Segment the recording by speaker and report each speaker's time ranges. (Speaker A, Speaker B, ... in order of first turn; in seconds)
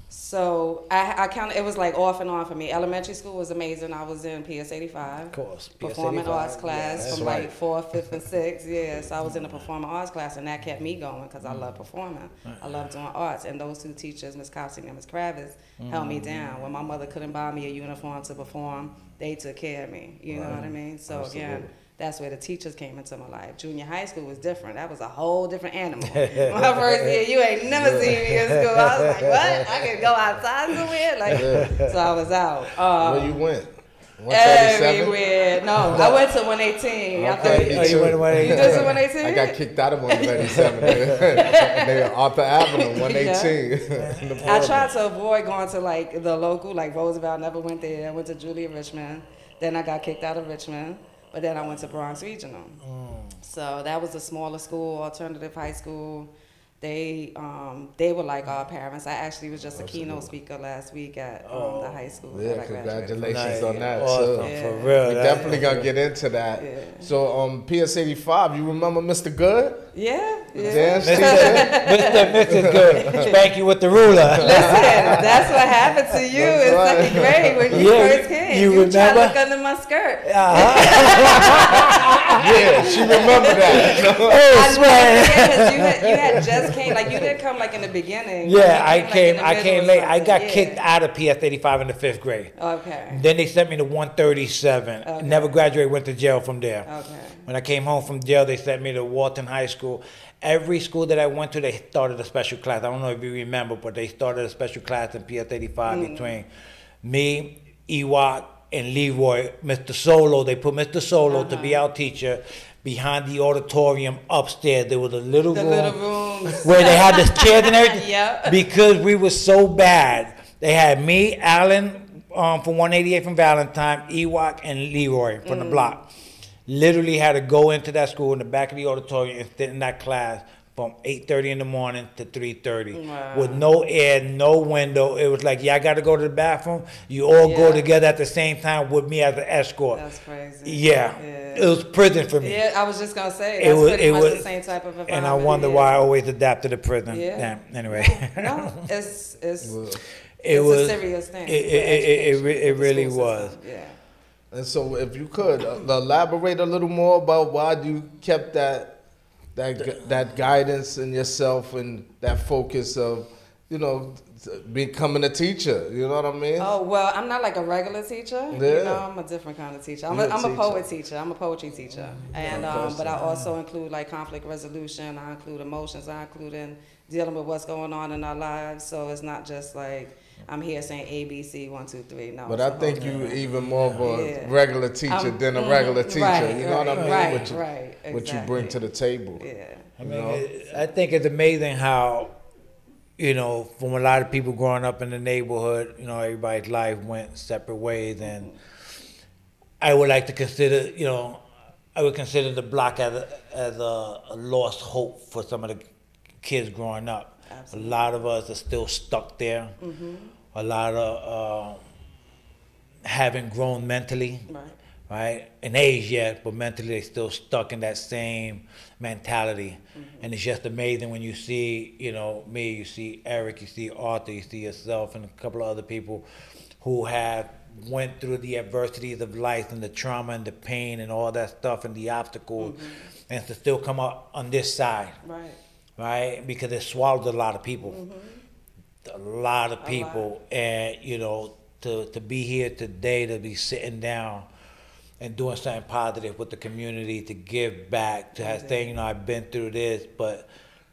Speaker A: 0.1-33.4, 34.3-39.6, 40.1-42.1, 42.6-43.6, 44.4-52.8, 53.4-65.6, 66.6-67.1, 69.9-73.4, 74.4-90.8, 92.5-93.2, 95.0-95.6, 96.8-97.5, 105.9-106.4, 111.2-111.8, 115.5-118.6, 125.4-126.0, 132.9-133.6, 137.4-137.9, 139.9-141.8, 142.4-146.0, 147.1-149.8, 150.5-154.0, 166.6-183.4, 184.0-188.8, 189.4-189.9, 198.2-198.6, 207.5-208.0, 209.8-210.3, 214.5-214.8, 219.9-220.3, 232.6-233.1, 235.2-235.6, 237.8-238.4, 239.8-240.3, 248.4-249.0
Speaker B: 5.3-7.4, 11.4-11.7, 12.5-12.8, 15.8-16.5, 26.1-27.2, 28.3-29.1, 31.3-31.9, 35.9-36.3, 37.4-39.0, 40.6-41.2, 44.0-44.9, 52.8-53.4, 61.4-62.1, 63.2-65.9, 70.6-75.2, 77.7-79.4, 80.2-86.4, 88.4-92.5, 93.1-96.9, 97.5-106.5, 107.0-126.0, 126.7-140.0, 140.6-142.6, 143.6-144.5, 145.1-148.8, 150.4-153.5, 172.1-172.6, 173.2-173.5, 182.9-184.1, 186.9-187.6, 190.0-192.3, 193.2-198.5, 199.8-201.4, 201.9-205.9, 206.4-209.8, 210.5-211.8, 213.0-214.5, 215.1-226.2, 226.8-235.2, 236.0-238.0, 239.0-244.5, 245.2-250.5
Speaker C: 7.0-7.5, 20.3-21.7, 27.7-28.3, 31.3-31.7, 33.0-35.2, 37.1-44.9, 59.7-60.3, 62.3-69.9, 70.6-71.8, 72.4-73.3, 74.2-75.4, 76.3-77.9, 82.4-84.5, 149.6-150.0, 154.5-159.0, 159.5-166.7, 168.5-169.1, 170.1-170.9, 172.5-173.2, 182.5-189.4, 190.0-190.5